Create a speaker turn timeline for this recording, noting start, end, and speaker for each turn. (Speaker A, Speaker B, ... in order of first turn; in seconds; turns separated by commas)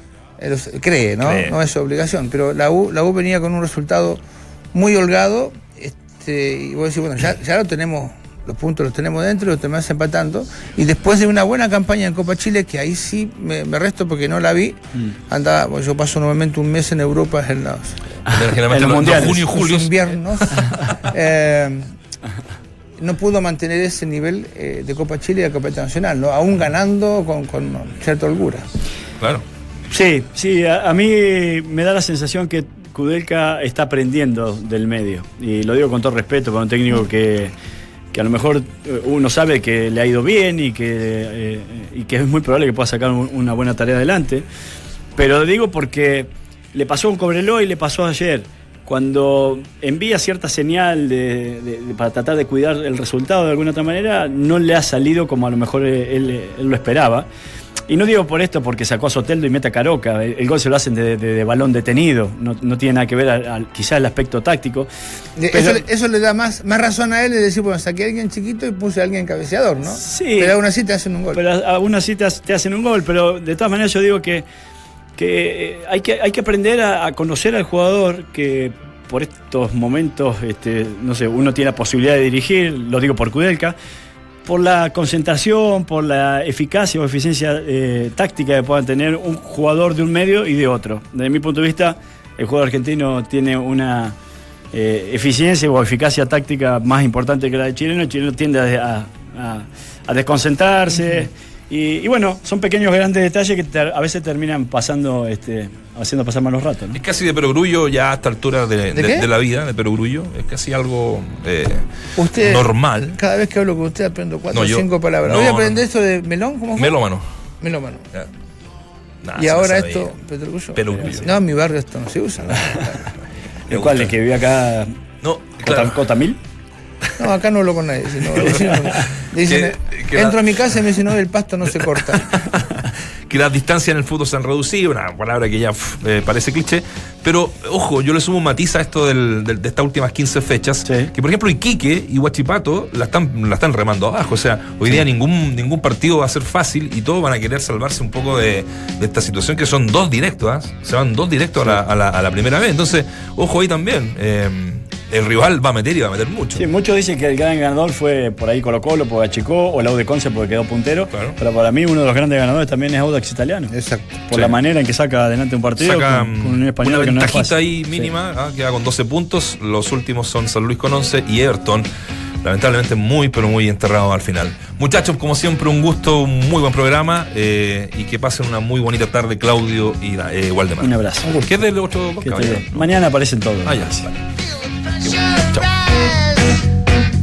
Speaker A: 0.4-4.2, Speaker B: 1.2-1.6, Speaker A: 4.7-18.0, Speaker C: 18.3-19.4, Speaker B: 18.3-21.0, Speaker A: 19.1-21.9, Speaker A: 23.0-28.6, Speaker B: 29.2-29.4, Speaker C: 29.9-37.5, Speaker C: 38.1-44.4, Speaker C: 45.2-57.3, Speaker C: 57.9-64.9, Speaker A: 65.4-71.4, Speaker C: 65.5-65.8, Speaker C: 70.0-70.6, Speaker C: 71.3-74.4, Speaker C: 75.2-83.8, Speaker C: 84.5-94.2, Speaker C: 94.7-107.0, Speaker B: 106.9-113.2, Speaker A: 108.9-109.3, Speaker A: 112.2-117.0, Speaker B: 114.5-115.8, Speaker B: 116.8-117.2, Speaker A: 117.6-118.1, Speaker B: 119.2-120.1, Speaker A: 119.4-123.1, Speaker B: 120.7-121.3, Speaker C: 120.9-121.2, Speaker B: 123.7-124.2, Speaker C: 123.7-125.0, Speaker B: 125.2-126.0, Speaker C: 125.6-126.4, Speaker A: 127.2-132.5, Speaker C: 128.5-129.0, Speaker B: 129.4-130.6, Speaker B: 132.2-156.6, Speaker C: 140.8-141.1, Speaker C: 156.6-163.7, Speaker B: 161.1-161.4, Speaker A: 163.7-164.1, Speaker C: 164.3-168.1, Speaker B: 165.8-171.9, Speaker B: 172.4-182.9, Speaker C: 180.8-181.5, Speaker C: 182.2-184.1, Speaker B: 183.7-184.2, Speaker B: 185.0-185.7, Speaker A: 185.1-186.6